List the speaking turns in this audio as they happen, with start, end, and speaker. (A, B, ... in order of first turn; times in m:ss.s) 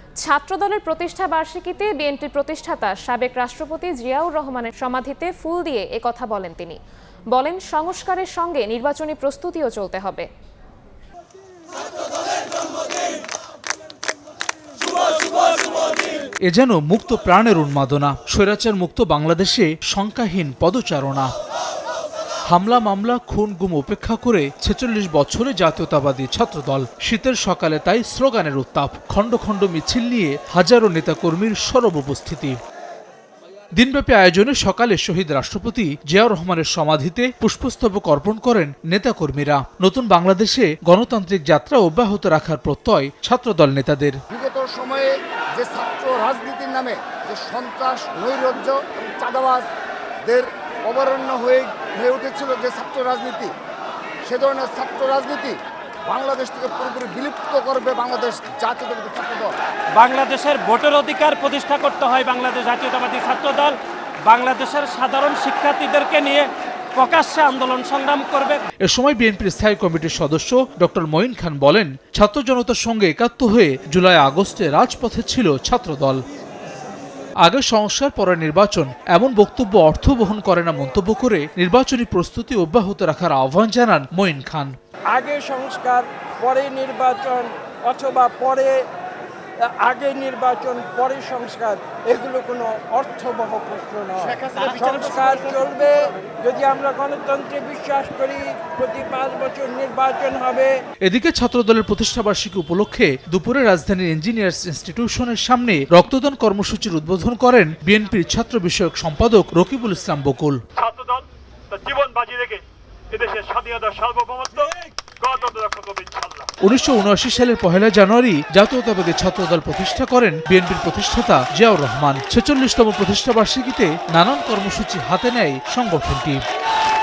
0:00.2-0:06.8 A
0:07.3-0:10.3 A
0:16.5-0:21.3 B
0:22.5-0:32.6 B
0:33.7-0:44.2 B
0:44.3-0:49.7 C
0:50.2-0:53.5 C
0:54.2-0:59.5 C
1:00.0-1:08.6 D
1:08.8-1:16.2 B
1:17.4-1:24.8 B
1:25.1-1:28.9 E
1:29.6-1:40.8 E
1:41.0-1:50.6 B
1:50.8-1:56.5 F
1:56.6-2:06.4 B